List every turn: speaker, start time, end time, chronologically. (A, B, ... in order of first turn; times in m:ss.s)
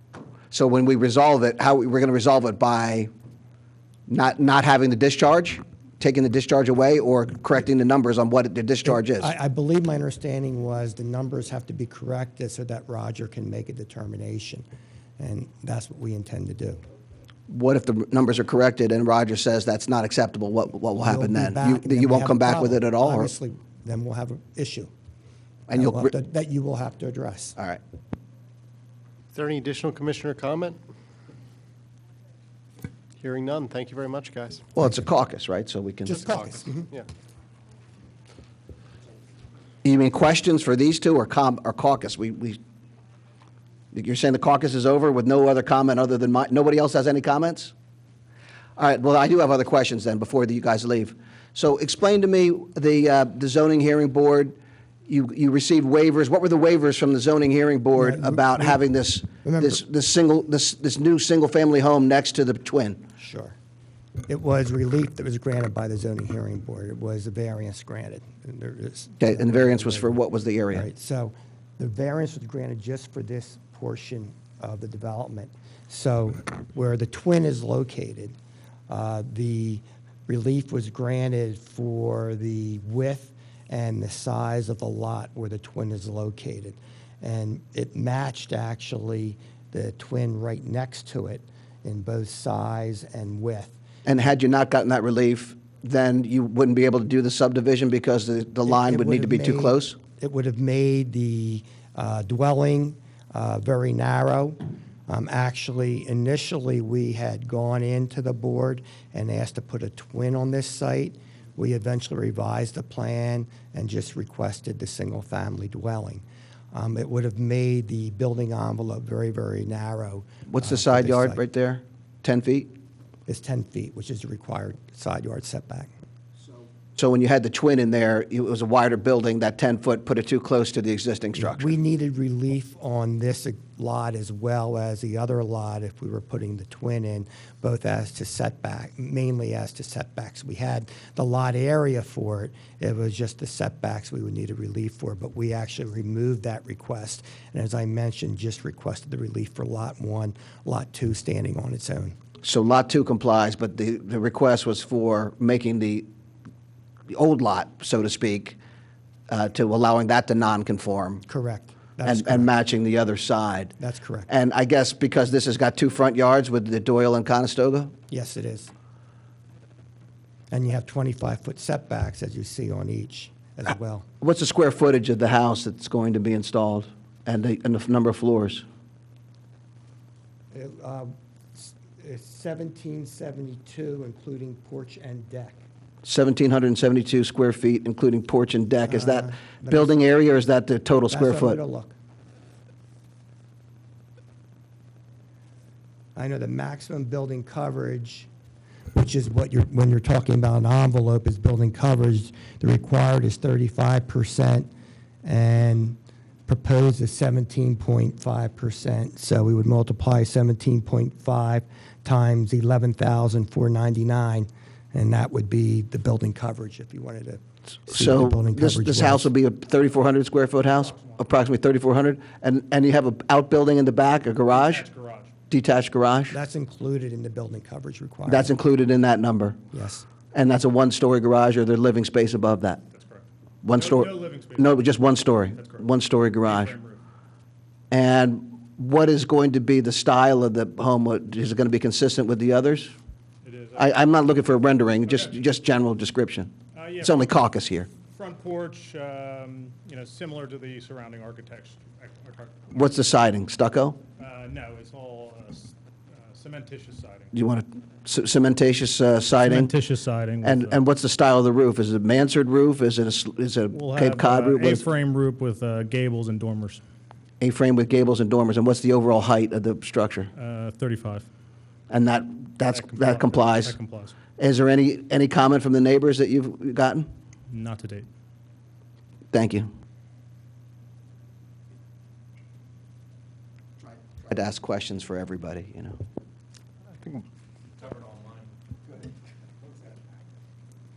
0:00.5-0:03.1 A
0:04.1-0:09.3 A
0:08.8-0:14.6 B
0:15.2-0:16.8 B
0:17.5-0:23.3 A
0:21.0-0:24.9 B
0:25.7-0:26.1 A
0:25.7-0:27.6 B
0:29.3-0:30.8 C
0:33.2-0:34.6 C
0:34.8-0:36.3 A
0:36.0-0:36.9 B
0:36.1-0:37.1 C
0:39.8-0:42.6 A
0:43.9-0:47.7 A
0:48.8-0:54.6 A
0:55.1-1:03.0 A
0:58.0-0:58.8 B
0:59.3-0:59.8 B
1:03.2-1:03.6 B
1:04.3-1:10.2 B
1:09.2-1:10.9 A
1:10.7-1:18.4 B
1:18.9-1:33.8 B
1:34.1-1:40.0 A
1:38.6-2:01.4 B
2:00.5-2:02.7 A
2:03.3-2:05.9 B
2:07.0-2:11.7 A
2:11.4-2:32.2 B
2:32.4-2:36.1 A
2:37.1-2:38.6 A
2:39.3-2:41.2 A
2:41.3-2:42.5 B
2:42.0-2:43.7 A
2:43.8-2:44.3 B
2:44.3-2:47.9 A
2:48.1-2:48.7 B
2:50.5-2:54.1 B
2:54.2-2:58.6 A
3:00.5-3:05.6 B
3:06.0-3:11.6 A
3:08.9-3:10.0 B
3:11.1-3:12.0 B
3:16.2-3:18.3 B
3:18.9-3:24.7 B
3:25.2-3:39.3 B
3:37.9-3:44.9 A
3:40.7-3:41.2 D
3:44.5-3:45.3 D
3:45.5-3:46.4 A
3:46.3-3:48.6 B
3:48.3-3:49.6 A
3:49.7-3:50.0 B
3:50.3-3:52.8 A
3:52.9-3:55.9 D
3:53.6-3:56.8 A
3:56.4-3:57.0 D
3:57.9-4:02.9 A
4:03.4-4:04.0 D
4:03.8-4:07.9 A
4:05.1-4:05.4 D
4:06.7-4:07.3 D
4:08.1-4:12.8 D
4:12.7-4:14.0 A
4:14.2-4:17.3 D
4:17.3-4:19.7 A
4:19.4-4:20.8 D
4:20.4-4:24.9 A
4:23.7-4:26.8 D
4:27.4-4:30.3 A
4:30.4-4:31.3 D
4:31.9-4:33.8 A
4:32.6-4:34.2 D
4:34.4-4:37.1 A
4:37.5-4:38.1 D
4:39.3-4:39.7 A
4:44.2-4:46.0 A